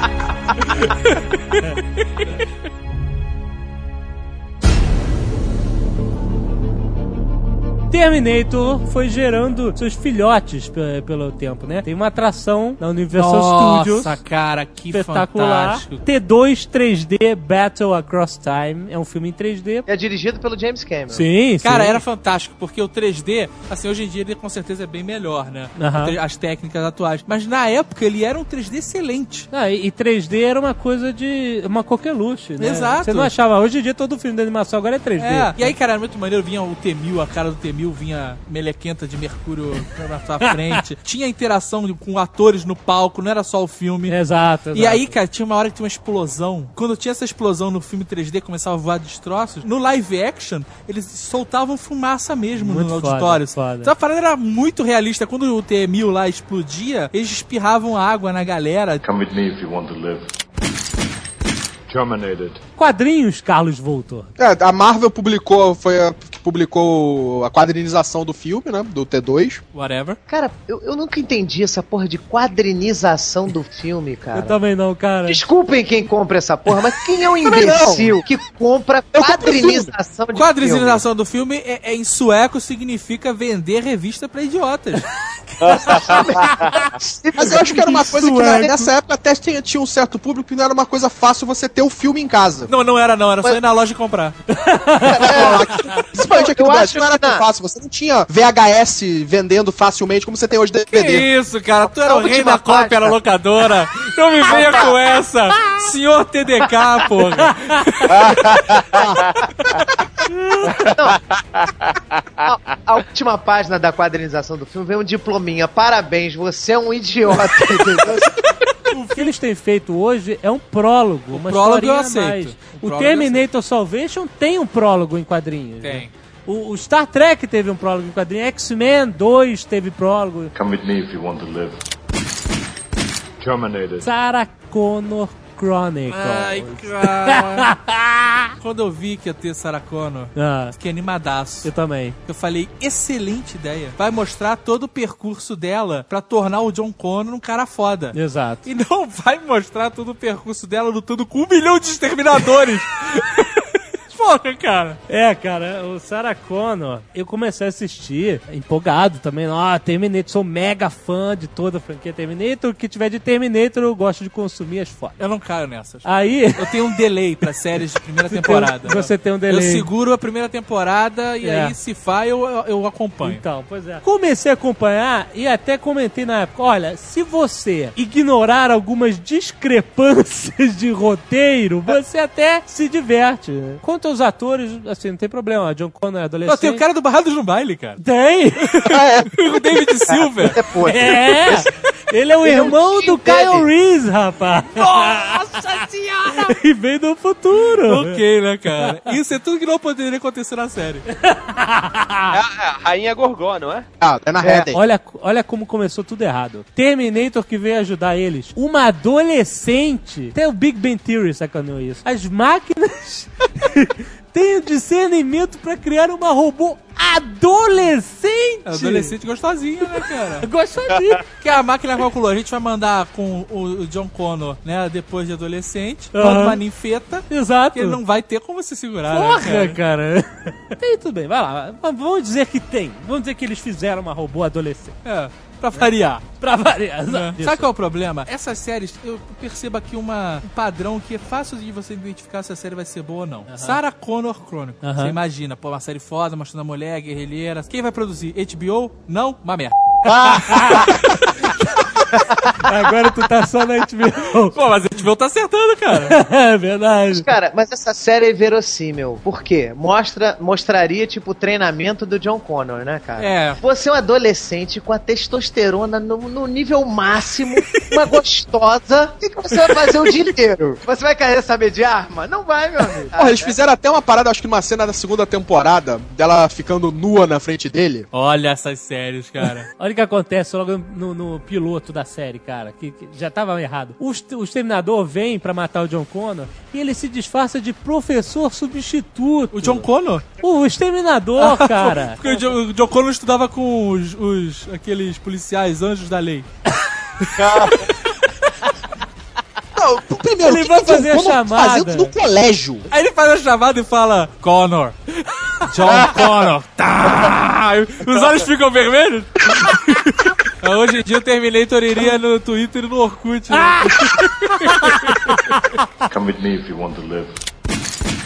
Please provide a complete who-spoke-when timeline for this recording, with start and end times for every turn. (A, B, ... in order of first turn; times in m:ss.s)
0:07.9-0:14.2 A
0:13.1-0:16.0 B
0:14.9-0:19.8 A
0:19.9-0:21.2 C
0:21.1-0:22.0 A
0:21.6-0:29.5 B
0:25.8-0:26.2 A
0:29.5-0:35.7 A
0:32.6-0:33.3 B
0:35.2-0:44.2 B
0:40.5-0:40.8 A
0:44.1-0:45.1 A
0:44.7-0:59.0 B
0:52.6-0:53.9 A
0:59.0-1:00.3 D
1:01.9-1:02.6 D
1:02.8-1:04.3 A
1:04.4-1:09.6 E
1:09.7-1:10.2 B
1:10.3-1:14.6 C
1:14.3-1:15.4 A
1:15.3-1:21.0 C
1:17.6-1:18.2 E
1:19.1-1:19.9 E
1:20.3-1:25.1 B
1:25.6-1:26.7 F
1:25.9-1:27.7 C
1:26.5-1:26.9 A
1:27.4-1:32.7 E
1:27.5-1:28.9 A
1:32.7-1:34.4 B
1:34.5-1:35.9 A
1:35.0-1:37.4 C
1:35.2-1:41.3 E
1:40.9-1:48.2 B
1:41.9-1:43.2 C
1:44.4-1:45.0 C
1:48.1-1:49.1 F
1:48.9-1:49.2 E
1:50.3-1:50.9 A
1:50.8-1:51.2 C
1:51.1-1:52.5 F
1:52.4-1:58.3 C
1:58.9-2:10.5 A
2:01.3-2:03.4 B
2:05.8-2:06.1 B
2:10.5-2:11.9 D
2:13.4-2:14.1 D
2:14.0-2:18.5 A
2:16.1-2:17.7 B
2:18.6-2:21.7 B
2:20.3-2:20.7 A
2:21.6-2:22.2 A
2:22.2-2:35.0 B
2:28.1-2:28.6 A
2:35.1-2:45.2 A
2:45.2-2:53.4 B
2:46.0-2:46.8 A
2:48.3-2:49.9 A
2:51.4-2:51.7 A
2:53.2-3:06.8 A
3:06.4-3:08.0 B
3:08.0-3:08.8 A
3:08.7-3:10.6 B
3:08.8-3:09.3 E
3:10.1-3:11.7 C
3:10.8-3:18.2 A
3:12.4-3:13.7 C
3:14.8-3:16.5 B
3:17.6-3:21.1 B
3:18.7-3:19.2 A
3:21.1-3:22.4 A
3:22.3-3:23.9 F
3:24.0-3:24.8 E
3:24.4-3:24.7 C
3:24.7-3:39.1 A
3:38.6-3:40.5 B
3:40.0-3:41.2 A
3:40.9-3:41.2 F
3:41.4-3:49.8 B
3:46.1-3:46.6 A
3:47.3-3:48.0 A
3:49.1-3:55.0 A
3:55.0-3:56.2 B
3:55.7-3:57.7 A
3:57.1-4:11.6 B
4:03.5-4:03.8 A
4:04.8-4:05.2 A
4:10.4-4:10.9 A
4:12.6-4:14.6 A
4:14.5-4:16.2 B
4:16.0-4:17.3 A
4:17.1-4:33.6 C
4:23.2-4:23.6 B
4:33.1-4:38.0 E
4:38.1-4:39.7 B
4:39.8-4:49.9 A
4:49.5-4:50.2 B
4:50.4-4:52.5 A
4:51.4-4:56.5 B
4:57.2-4:57.8 B
4:57.4-4:57.9 F
4:59.7-5:02.8 E
5:00.4-5:02.1 A
5:02.9-5:15.3 B
5:13.6-5:15.8 A
5:16.0-5:17.4 D